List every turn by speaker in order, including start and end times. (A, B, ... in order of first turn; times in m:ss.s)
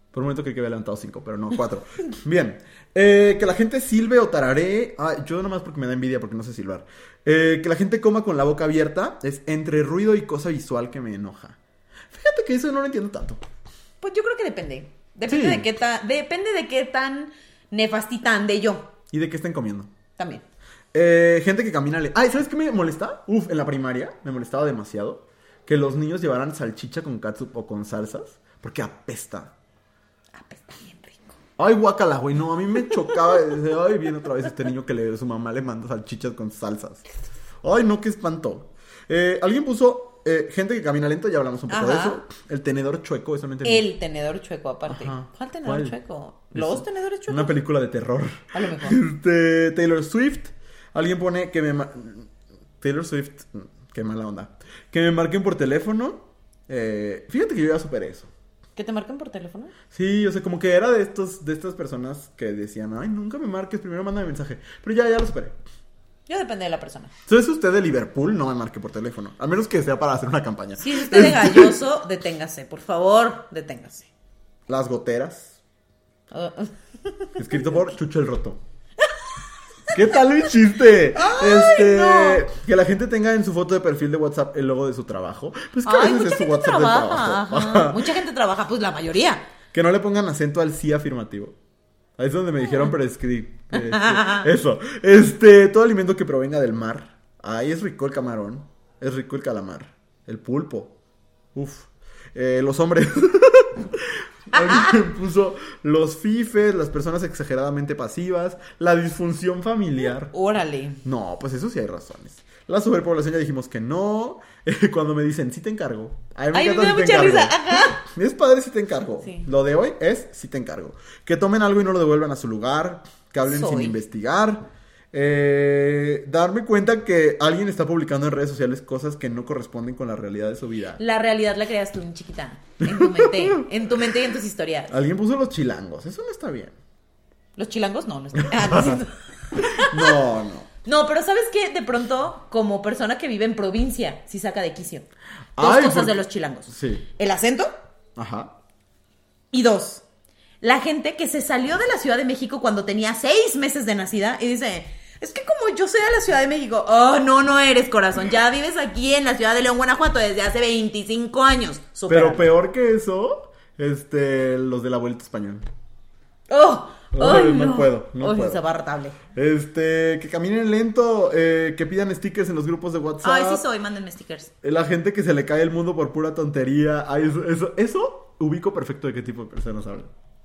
0:00.1-0:11.6 A
0:12.1-0:13.4 A
0:14.0-0:18.9 B
0:15.3-0:15.7 A
0:19.1-0:19.9 A
0:20.2-0:20.4 B
0:20.9-0:29.5 A
0:30.3-0:31.4 B
0:31.6-0:37.1 A
0:37.6-0:43.9 A
0:41.7-0:42.2 B
0:43.6-0:47.5 B
0:44.9-0:46.0 A
0:46.5-0:52.3 A
0:48.5-0:49.0 B
0:52.8-0:58.3 A
0:58.8-0:59.7 B
0:59.9-1:05.6 A
1:06.3-1:07.1 B
1:07.3-1:11.8 A
1:10.8-1:14.1 B
1:14.7-1:15.6 A
1:16.3-1:17.7 B
1:17.4-1:18.6 A
1:19.9-1:28.1 A
1:21.1-1:22.5 B
1:25.8-1:29.5 B
1:29.7-1:31.6 A
1:32.2-1:41.0 A
1:33.7-1:34.5 B
1:41.5-1:50.3 A
1:44.5-1:45.0 B
1:50.3-1:51.0 B
1:51.0-2:11.0 A
1:56.5-1:58.0 B
2:03.4-2:04.0 B
2:11.0-2:15.0 B
2:12.8-2:13.7 A
2:14.9-2:16.8 A
2:17.6-2:20.2 B
2:18.4-2:19.0 A
2:19.7-2:20.7 A
2:20.8-2:25.1 B
2:25.6-2:27.1 A
2:25.6-2:27.7 B
2:28.2-2:28.6 A
2:29.5-2:30.0 B
2:30.6-2:42.5 B
2:42.1-2:45.6 A
2:46.5-2:49.2 B
2:47.1-2:48.6 A
2:49.3-2:53.6 A
2:53.2-2:54.5 B
2:54.6-3:00.1 A